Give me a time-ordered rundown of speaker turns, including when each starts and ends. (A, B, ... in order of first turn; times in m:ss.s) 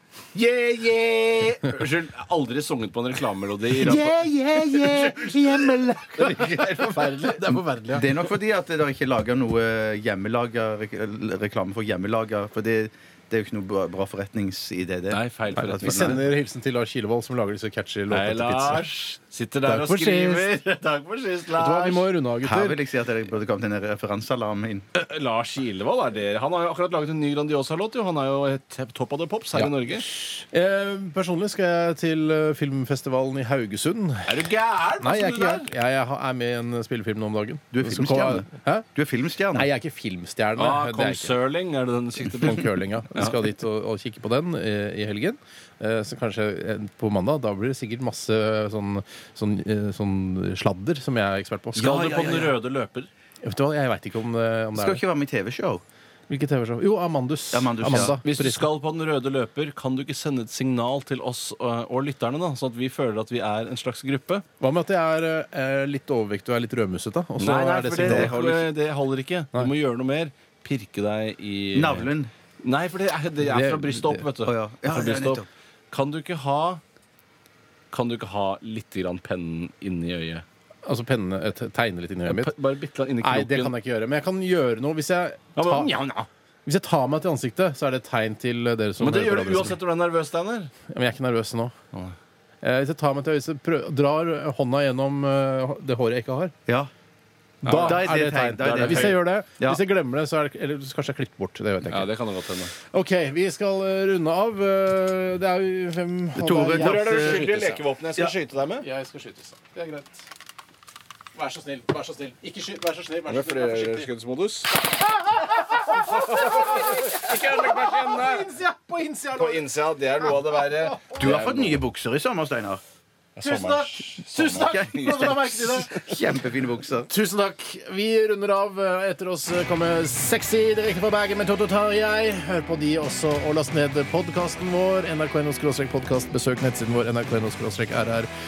0:00.3-0:07.4 A
0:03.8-0:06.7 B
0:03.9-0:08.1 C
0:07.9-0:16.2 B
0:15.1-0:16.2 A
0:15.8-0:18.9 C
0:18.1-0:22.1 A
0:19.6-0:20.5 C
0:21.6-0:22.8 C
0:22.4-0:24.9 B
0:25.0-0:30.1 A
0:29.6-0:34.5 C
0:34.3-0:35.7 A
0:35.0-0:38.9 C
0:37.7-0:39.7 B
0:39.5-0:41.4 C
0:40.6-0:43.4 A
0:42.3-0:52.4 C
0:51.8-0:52.6 B
0:51.8-0:53.1 A
0:53.4-0:55.0 C
0:54.8-0:55.8 B
0:56.3-0:58.7 C
0:57.5-0:58.2 B
0:57.9-1:04.4 A
1:04.6-1:08.4 C
1:07.4-1:12.1 A
1:08.0-1:08.6 B
1:11.7-1:12.3 B
1:12.6-1:16.8 A
1:13.4-1:14.2 C
1:14.4-1:15.5 B
1:17.9-1:20.4 A
1:20.8-1:22.5 C
1:22.3-1:23.7 A
1:23.2-1:26.0 C
1:25.6-1:26.3 A
1:26.6-1:29.8 C
1:29.0-1:30.7 A
1:30.9-1:31.7 C
1:32.6-1:36.5 C
1:37.6-1:39.2 A
1:37.6-1:42.1 C
1:37.7-1:39.8 B
1:41.9-1:42.7 A
1:42.9-1:47.8 C
1:46.4-1:47.5 B
1:46.7-1:48.9 A
1:48.8-1:50.3 C
1:51.4-1:54.1 C
1:53.3-1:54.7 A
1:55.0-2:01.4 C
1:55.9-1:58.5 A
1:59.4-2:01.8 A
2:01.2-2:02.8 B
2:03.4-2:06.1 A
2:03.4-2:05.9 C
2:04.2-2:07.1 B
2:07.1-2:18.3 C